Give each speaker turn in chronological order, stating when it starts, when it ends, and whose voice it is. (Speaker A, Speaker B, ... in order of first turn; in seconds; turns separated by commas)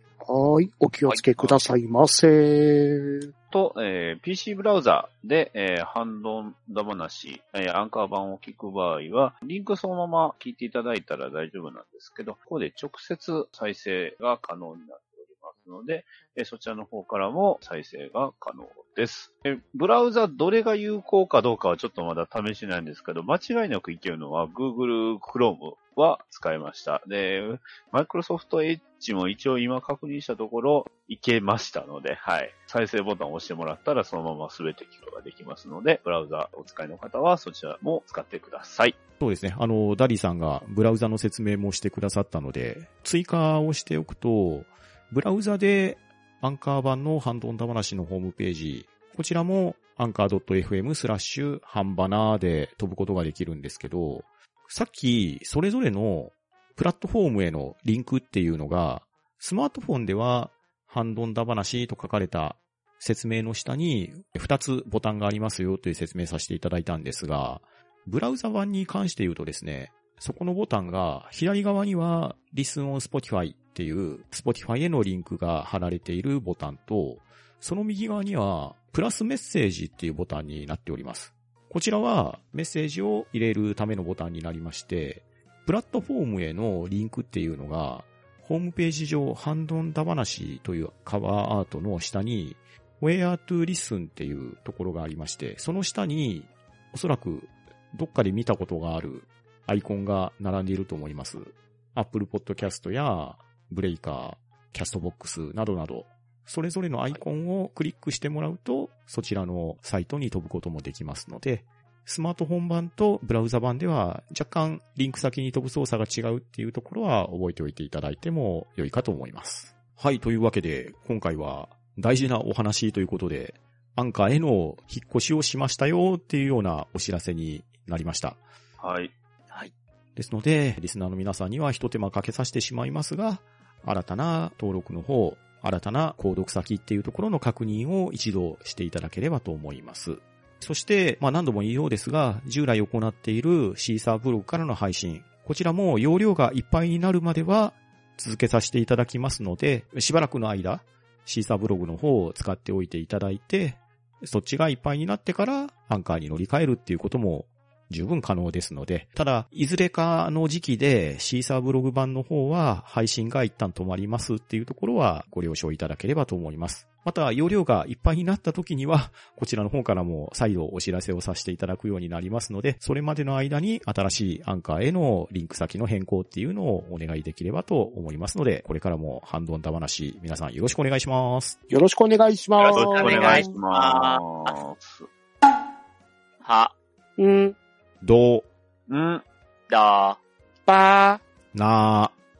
Speaker A: 0.2-3.3, Speaker B: 1.1-1.6, Speaker C: 3.5-39.0, Speaker D: 39.2-128.4, Speaker C: 128.8-129.1, Speaker D: 130.2-181.6, Speaker A: 181.7-183.5, Speaker B: 182.6-184.6, Speaker C: 182.7-185.1, Speaker B: 186.4-186.7, Speaker A: 187.2-187.6, Speaker D: 188.0-188.5, Speaker C: 188.9-189.2, Speaker B: 189.7-190.2, Speaker A: 190.7-191.2, Speaker D: 191.5-192.2